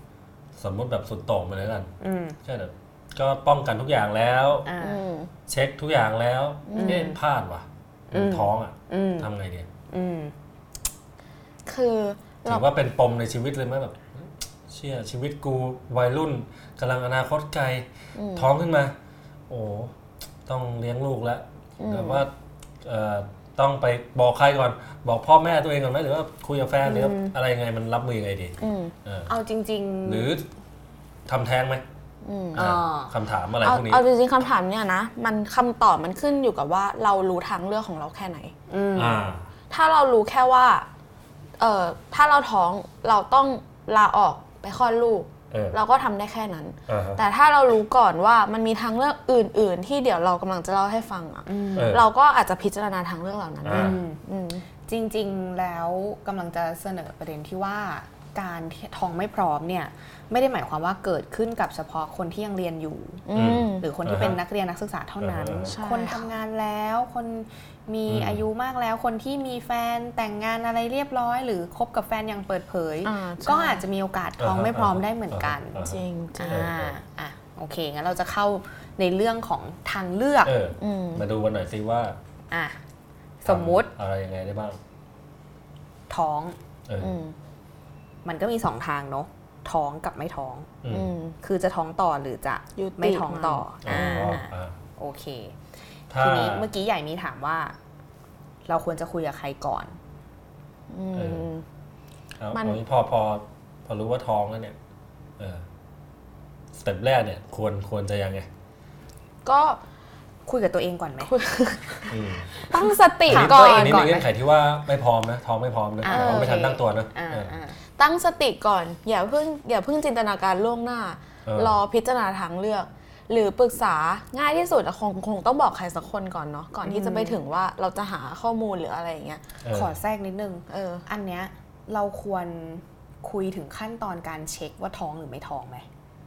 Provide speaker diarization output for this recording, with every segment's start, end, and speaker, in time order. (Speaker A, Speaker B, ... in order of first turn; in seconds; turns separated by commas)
Speaker A: 0.6-1.9, Speaker B: 2.0-2.4, Speaker A: 2.4-4.7, Speaker B: 4.6-5.0, Speaker C: 4.8-5.3, Speaker A: 5.5-9.7, Speaker C: 6.7-7.1, Speaker B: 6.8-7.2, Speaker B: 8.1-9.3, Speaker B: 9.9-10.3, Speaker C: 11.7-12.6, Speaker A: 12.4-18.9, Speaker C: 18.1-18.5, Speaker A: 19.5-19.9, Speaker A: 20.4-29.3, Speaker C: 21.8-22.2, Speaker B: 26.8-27.3, Speaker C: 28.6-28.9, Speaker B: 29.3-30.3, Speaker A: 30.0-30.4, Speaker A: 31.3-31.8, Speaker C: 32.2-32.7, Speaker B: 32.5-33.1, Speaker A: 32.5-34.0, Speaker C: 33.6-38.5, Speaker B: 38.7-39.2, Speaker A: 39.0-39.5, Speaker C: 39.7-40.9, Speaker C: 41.6-54.6, Speaker A: 45.5-45.8, Speaker A: 46.9-47.2, Speaker B: 51.5-52.0, Speaker A: 51.8-52.0, Speaker A: 53.6-54.0, Speaker B: 53.7-54.2, Speaker B: 54.9-80.5, Speaker C: 63.2-63.9, Speaker A: 63.3-64.4, Speaker A: 65.2-65.7, Speaker C: 65.6-66.3, Speaker A: 68.1-68.4, Speaker C: 73.0-73.8, Speaker A: 74.4-77.0, Speaker C: 75.8-76.7, Speaker A: 80.4-82.2, Speaker C: 80.8-81.2, Speaker B: 82.5-82.8, Speaker B: 83.4-83.9, Speaker A: 83.5-84.8, Speaker B: 86.1-86.5, Speaker A: 86.9-87.1, Speaker C: 87.0-87.3, Speaker B: 88.2-90.7, Speaker A: 90.8-91.1, Speaker C: 90.9-91.3, Speaker B: 91.4-95.5, Speaker C: 92.7-94.3, Speaker A: 93.8-94.7, Speaker A: 96.1-96.7, Speaker B: 96.1-97.7, Speaker B: 98.7-99.9, Speaker C: 100.9-101.6, Speaker A: 101.1-101.5, Speaker A: 102.4-104.8, Speaker C: 102.5-102.8, Speaker A: 105.4-105.6, Speaker A: 106.7-108.5, Speaker C: 109.4-109.8, Speaker B: 110.5-111.3, Speaker C: 111.2-114.1, Speaker A: 112.1-112.5, Speaker B: 113.3-114.3, Speaker A: 113.3-117.5, Speaker B: 116.0-117.8, Speaker C: 116.0-116.5, Speaker C: 118.0-129.4, Speaker A: 121.5-121.8, Speaker B: 126.8-127.4, Speaker A: 129.6-129.9, Speaker B: 129.7-135.8, Speaker C: 130.7-131.0